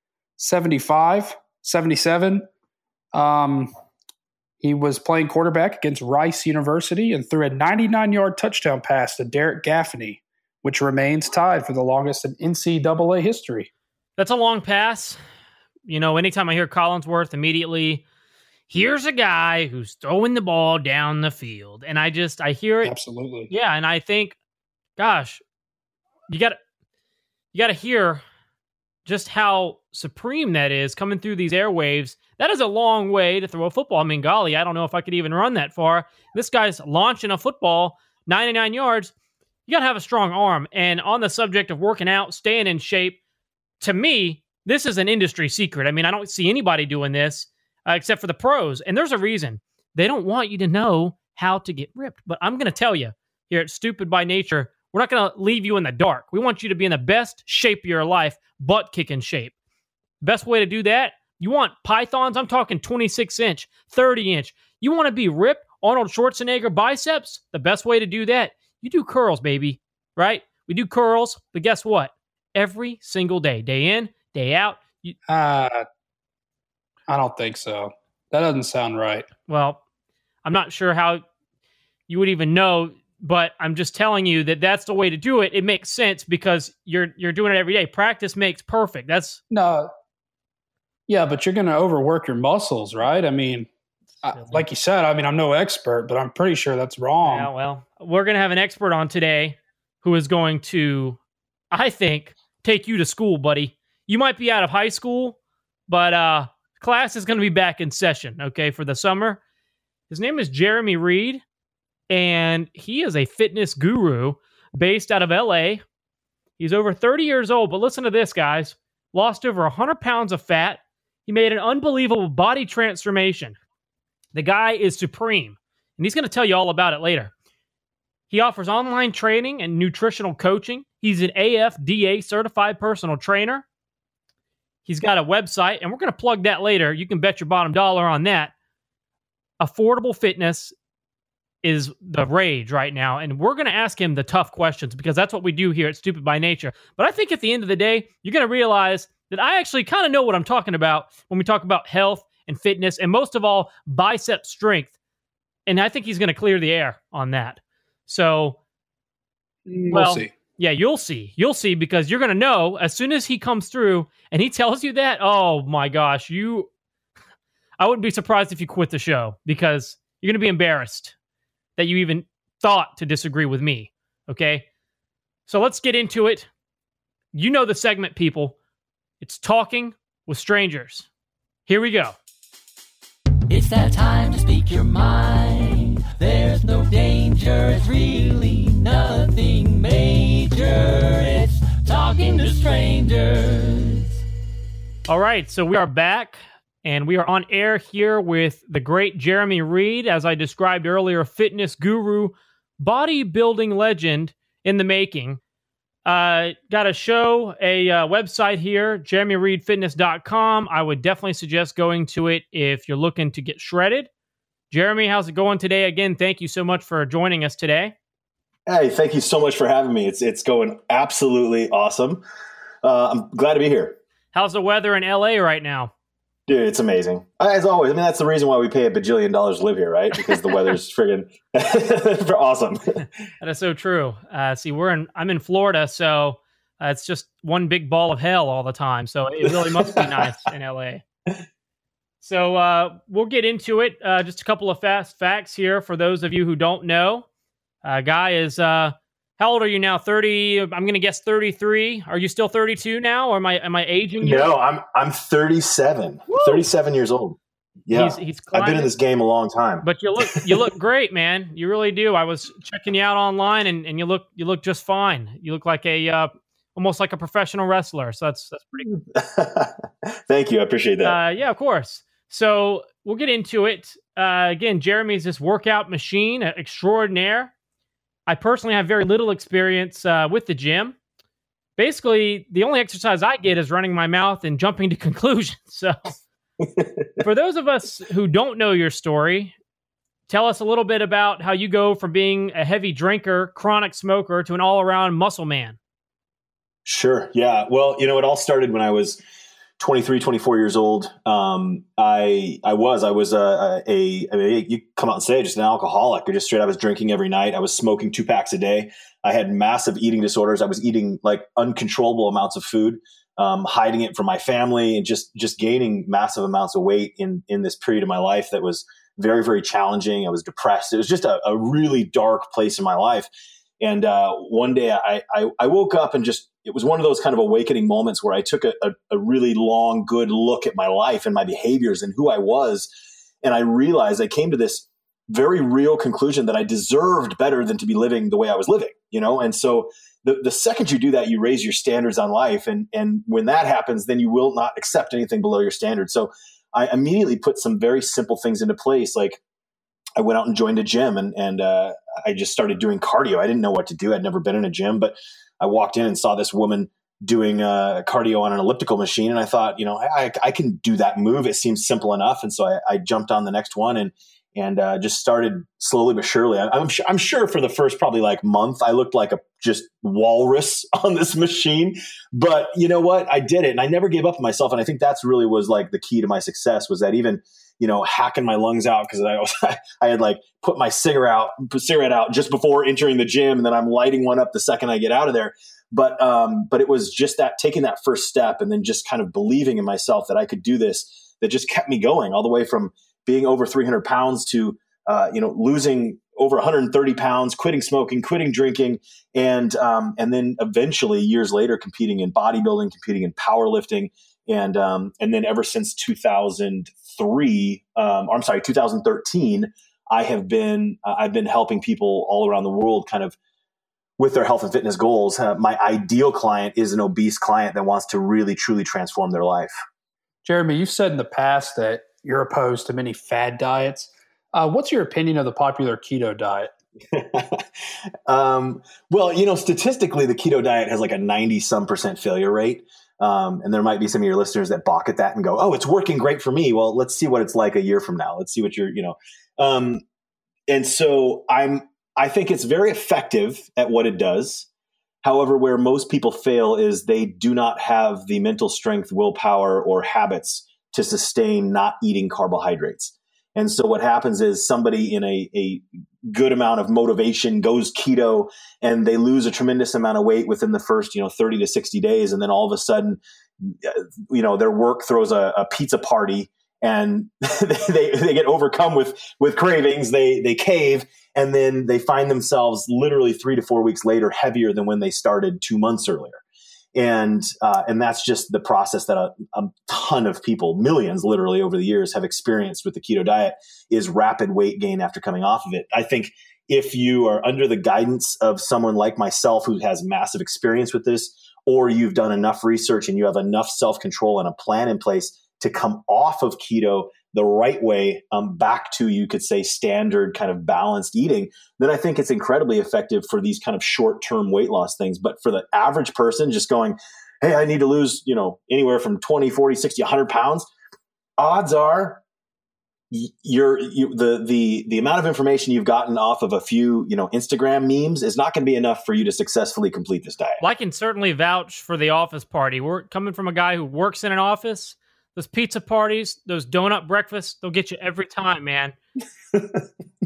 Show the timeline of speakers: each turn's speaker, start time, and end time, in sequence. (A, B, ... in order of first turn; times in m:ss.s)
0:00.4-0:02.4 A
0:03.1-0:03.7 A
0:04.6-0:13.7 A
0:14.2-0:15.2 B
0:15.9-0:18.0 B
0:18.7-0:22.9 B
0:22.8-0:23.5 A
0:23.5-0:24.4 B
0:25.0-0:25.4 B
0:26.3-0:26.6 B
0:27.5-0:28.2 B
0:29.0-0:39.1 B
0:39.7-0:43.2 B
0:43.8-0:59.5 B
1:00.2-1:15.2 B
1:15.3-1:15.8 A
1:17.1-1:19.3 A
1:19.5-1:19.8 B
1:20.4-1:21.2 B
1:22.1-1:29.4 B
1:29.5-1:29.9 A
1:31.1-1:33.7 A
1:34.2-1:37.5 A
1:34.3-1:34.6 B
1:37.2-1:41.2 B
1:41.7-1:49.4 B
1:50.1-1:51.4 B
1:52.1-1:55.8 B
1:56.6-2:03.6 B
2:04.3-2:07.3 B
2:08.3-2:13.6 B
2:14.8-2:18.5 B
2:19.6-2:20.8 B
2:21.6-2:34.9 B
2:35.7-2:38.6 B
2:39.7-2:40.3 A
2:39.9-2:46.7 B
2:47.8-2:51.2 B
2:51.8-2:54.7 B
2:55.5-2:56.5 B
2:57.3-2:58.6 B
2:59.2-3:01.1 B
3:01.7-3:02.2 B
3:03.5-3:14.1 C
3:15.1-3:25.4 B
3:26.0-3:34.1 B
3:34.7-3:38.0 B
3:38.7-3:42.2 D
3:42.8-3:44.0 D
3:44.3-3:45.9 B
3:46.5-3:52.8 D
3:53.4-4:01.0 B
3:59.5-4:00.1 D
4:02.2-4:07.2 B
4:07.8-4:14.5 B
4:14.2-4:19.9 D
4:16.3-4:16.7 B
4:17.9-4:18.9 B
4:19.8-4:28.9 B
4:28.9-4:29.7 D
4:30.3-4:31.2 D
4:31.0-4:37.5 B
4:38.3-4:41.0 B
4:41.8-4:46.2 B
4:46.6-4:47.1 D
4:47.2-4:49.6 B
4:50.3-4:55.8 B
4:56.8-4:59.2 D
4:59.8-5:23.3 D
5:23.8-5:32.9 D
5:33.4-5:49.4 D
5:50.2-6:53.4 D
6:54.2-6:59.8 D
7:00.4-7:06.7 A
7:07.1-7:07.6 D
7:08.3-7:20.0 D
7:20.7-7:24.7 D
7:25.2-7:56.4 D
7:57.0-8:30.7 D
8:31.4-8:32.2 D
8:33.1-8:40.6 D
8:40.6-8:49.0 B
8:49.5-8:49.9 D